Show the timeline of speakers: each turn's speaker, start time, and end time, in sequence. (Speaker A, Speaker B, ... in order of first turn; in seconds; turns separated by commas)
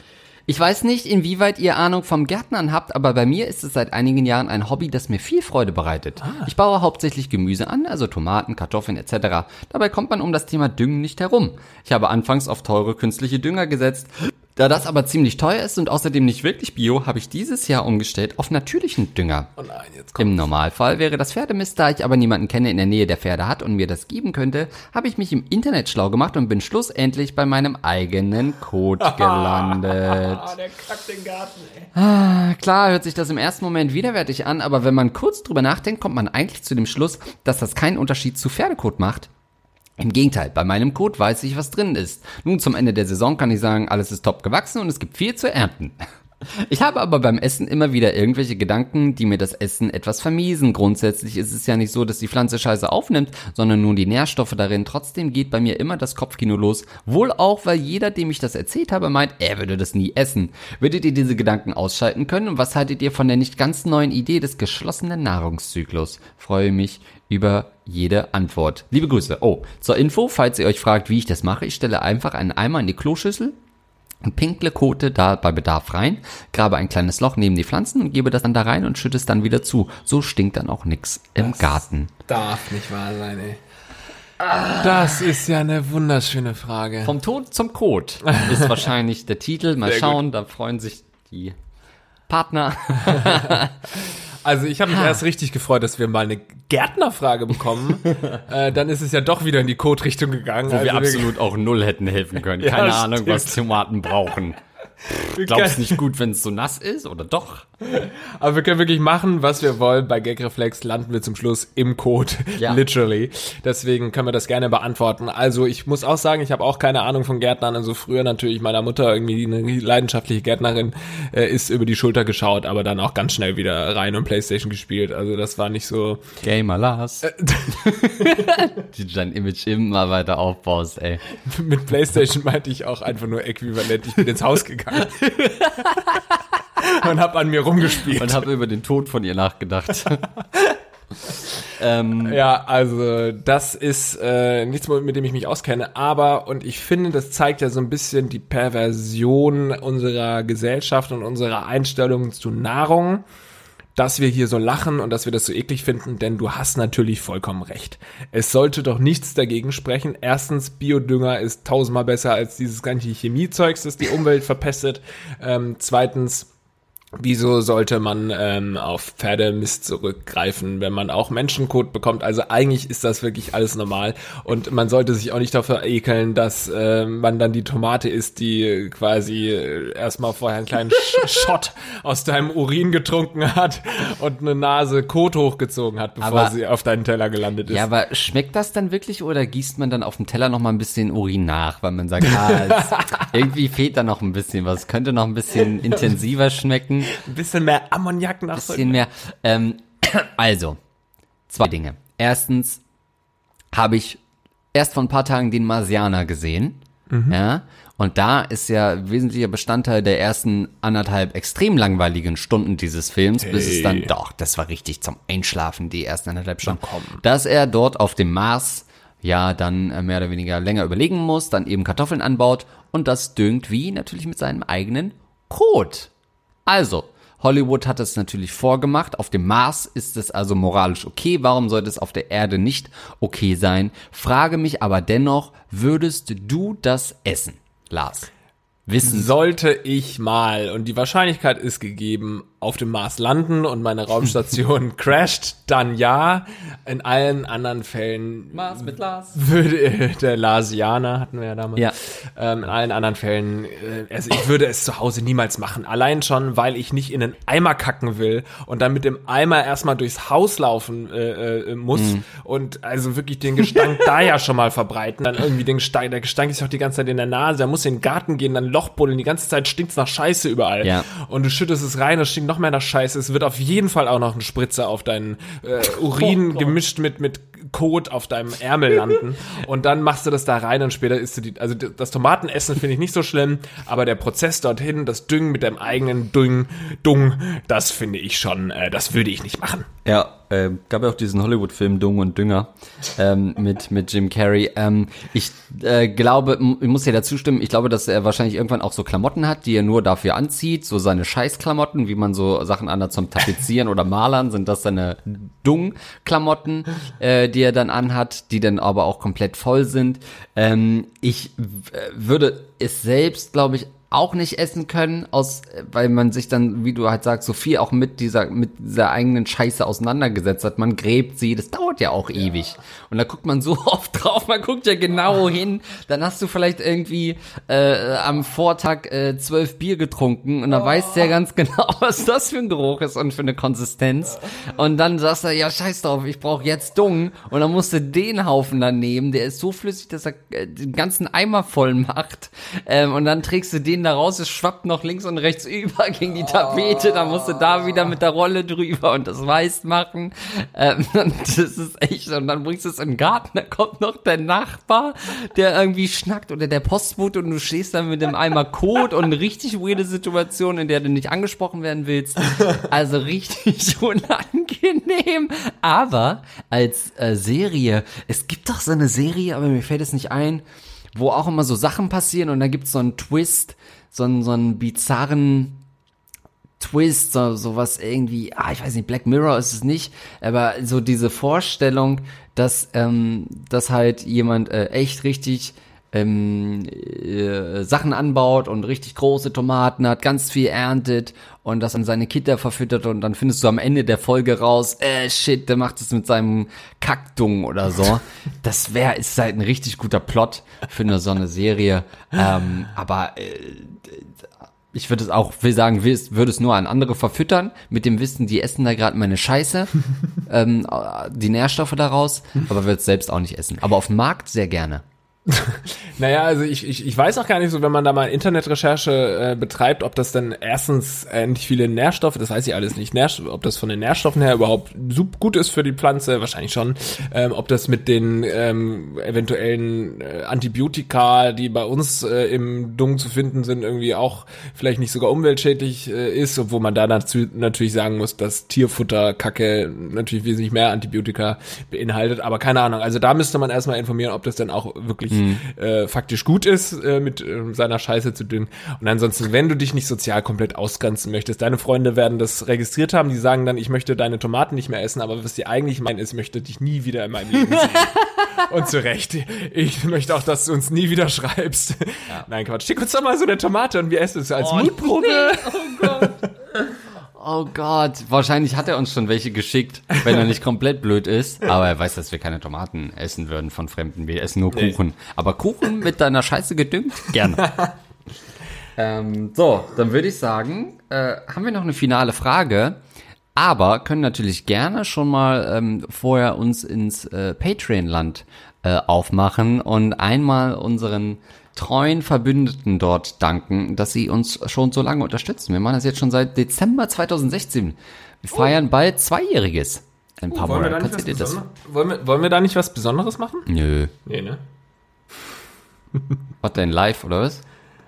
Speaker A: 0.5-19.5, Speaker B: 6.2-6.5, Speaker B: 19.6-20.3, Speaker A: 20.2-30.5, Speaker B: 29.0-31.9, Speaker A: 31.9-39.3, Speaker A: 40.0-46.0, Speaker A: 46.5-73.5, Speaker A: 74.2-82.1, Speaker B: 82.3-83.6, Speaker A: 84.4-84.9, Speaker B: 84.8-87.2, Speaker A: 87.0-91.5, Speaker B: 88.3-88.7, Speaker B: 89.8-90.2, Speaker A: 92.3-93.8, Speaker B: 93.1-93.5, Speaker B: 94.4-101.4, Speaker A: 100.7-107.7, Speaker B: 102.6-103.6, Speaker B: 105.3-106.0, Speaker B: 107.8-126.2, Speaker A: 126.4-131.2, Speaker B: 127.2-128.5, Speaker B: 131.4-135.6, Speaker A: 135.4-136.0, Speaker B: 136.8-138.5, Speaker A: 138.1-140.3, Speaker A: 141.7-142.4, Speaker B: 142.2-153.2, Speaker B: 153.9-166.5, Speaker B: 167.2-187.8, Speaker A: 186.2-186.5, Speaker A: 187.7-197.1, Speaker B: 192.3-193.2, Speaker B: 197.1-199.0, Speaker A: 198.5-200.8, Speaker A: 201.5-202.8, Speaker A: 203.7-204.2, Speaker A: 204.7-226.1, Speaker B: 207.1-207.3, Speaker B: 213.4-214.1, Speaker B: 216.6-217.2, Speaker A: 226.7-238.3, Speaker A: 238.9-239.3, Speaker B: 239.0-289.9, Speaker A: 248.5-249.4, Speaker A: 261.9-262.2, Speaker A: 290.0-375.8, Speaker A: 376.8-404.3, Speaker A: 404.9-409.9, Speaker A: 410.4-415.0, Speaker B: 415.5-466.4, Speaker A: 445.3-445.6, Speaker A: 464.6-466.5, Speaker A: 467.4-477.7, Speaker B: 474.7-475.0, Speaker A: 479.0-483.0, Speaker A: 483.5-501.6, Speaker B: 500.5-503.7, Speaker A: 503.7-504.1, Speaker B: 504.2-504.6, Speaker A: 506.6-507.6